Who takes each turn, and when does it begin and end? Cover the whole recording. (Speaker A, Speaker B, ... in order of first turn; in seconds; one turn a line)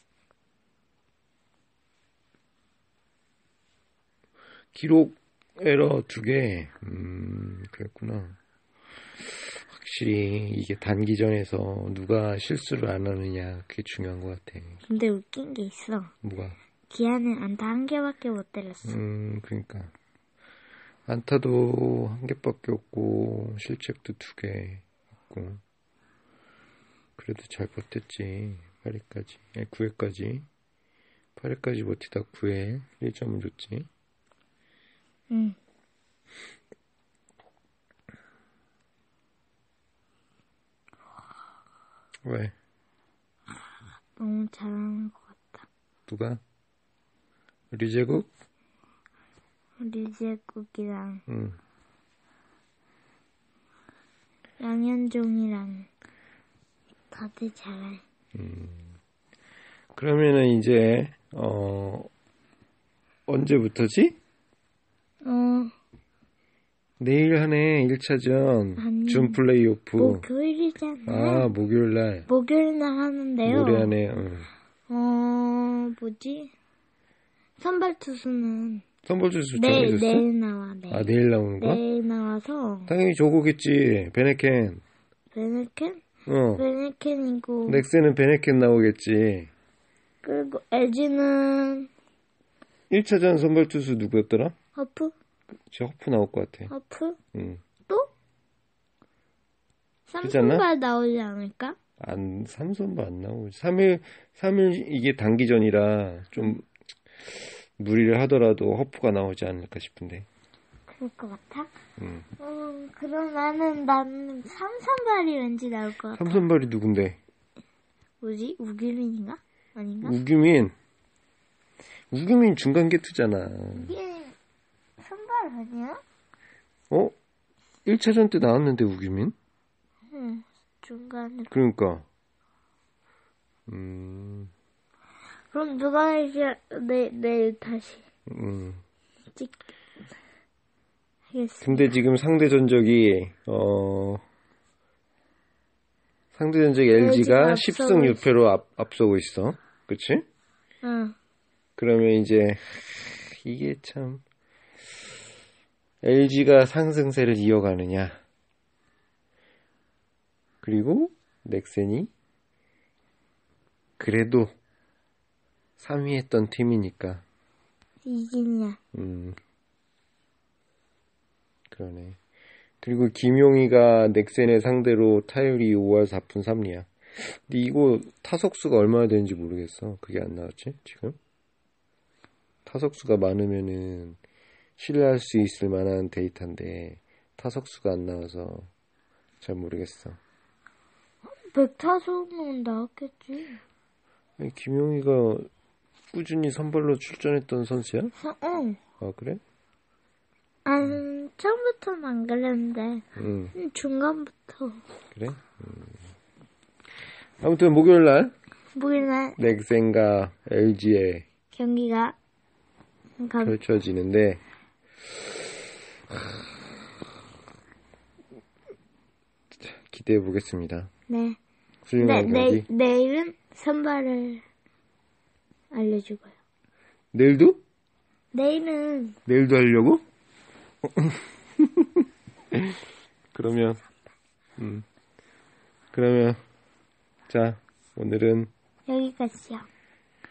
Speaker A: 4.7-8.4
Speaker A: 9.2-14.8
Speaker B: 14.8-16.1
Speaker A: 16.2-16.6
Speaker B: 16.9-19.0
Speaker A: 18.9-19.9
Speaker A: 21.1-25.6
Speaker A: 27.2-30.5
Speaker A: 31.4-33.9
Speaker B: 35.3-35.6
Speaker A: 42.2-42.5
Speaker B: 44.2-45.7
Speaker A: 46.1-46.4
Speaker A: 47.7-48.3
Speaker B: 49.8-51.2
Speaker A: 51.3-51.6
Speaker B: 54.6-55.9
Speaker B: 57.1-58.0
Speaker A: 58.4-59.0
Speaker A: 60.0-62.1
Speaker A: 63.3-64.2
Speaker B: 65.2-65.7
Speaker A: 67.0-70.3
Speaker B: 68.8-69.4
Speaker B: 70.0-71.5
Speaker A: 71.1-72.3
Speaker B: 72.3-74.0
Speaker A: 73.5-74.5
Speaker B: 74.9-76.5
Speaker B: 77.6-78.9
Speaker A: 79.0-80.3
Speaker B: 79.5-82.9
Speaker A: 80.9-81.8
Speaker A: 82.9-84.8
Speaker B: 85.3-86.0
Speaker A: 86.3-86.6
Speaker B: 86.6-87.9
Speaker A: 87.7-89.5
Speaker B: 90.2-91.9
Speaker A: 92.9-94.5
Speaker B: 94.8-95.1
Speaker A: 95.7-96.7
Speaker B: 96.7-97.2
Speaker A: 97.3-97.6
Speaker B: 100.1-101.8
Speaker A: 100.2-100.7
Speaker A: 102.0-106.7
Speaker A: 107.3-110.3
Speaker B: 110.9-111.7
Speaker A: 112.0-112.3
Speaker B: 112.4-116.4
Speaker A: 116.1-117.2
Speaker B: 118.2-120.2
Speaker A: 120.0-120.8
Speaker A: 122.1-124.0
Speaker B: 123.8-124.4
Speaker B: 125.0-126.0
Speaker A: 127.8-129.3
Speaker B: 130.1-131.5
Speaker A: 131.5-132.1
Speaker A: 133.7-134.5
Speaker B: 135.5-138.0
Speaker A: 138.3-138.8
Speaker B: 141.3-142.0
Speaker A: 141.6-144.2
Speaker A: 146.3-150.2
Speaker B: 146.9-148.2
Speaker B: 150.8-151.2
Speaker A: 151.8-154.2
Speaker A: 156.0-158.2
Speaker A: 160.6-162.1
Speaker A: 164.0-164.5
Speaker A: 165.8-167.2
Speaker B: 168.1-168.8
Speaker A: 168.9-169.4
Speaker A: 171.7-172.2
Speaker A: 172.8-181.2
Speaker A: 182.7-184.2
Speaker A: 184.8-188.7
Speaker A: 189.4-190.2
Speaker B: 191.2-193.6
Speaker A: 194.4-195.5
Speaker A: 196.1-198.1
Speaker B: 198.2-198.8
Speaker A: 199.0-199.4
Speaker B: 200.7-204.8
Speaker A: 203.2-203.6
Speaker A: 205.1-206.0
Speaker A: 207.4-208.3
Speaker B: 208.7-209.4
Speaker A: 209.4-211.3
Speaker B: 211.5-212.2
Speaker B: 213.2-213.6
Speaker A: 213.4-214.4
Speaker A: 219.5-220.9
Speaker B: 221.1-221.4
Speaker A: 221.8-222.7
Speaker B: 222.0-224.4
Speaker B: 225.7-226.3
Speaker A: 227.1-227.6
Speaker B: 228.3-229.2
Speaker A: 229.3-230.0
Speaker A: 231.0-231.9
Speaker A: 233.3-233.8
Speaker A: 234.6-234.8
Speaker A: 235.9-236.4
Speaker A: 237.3-238.5
Speaker B: 238.9-239.7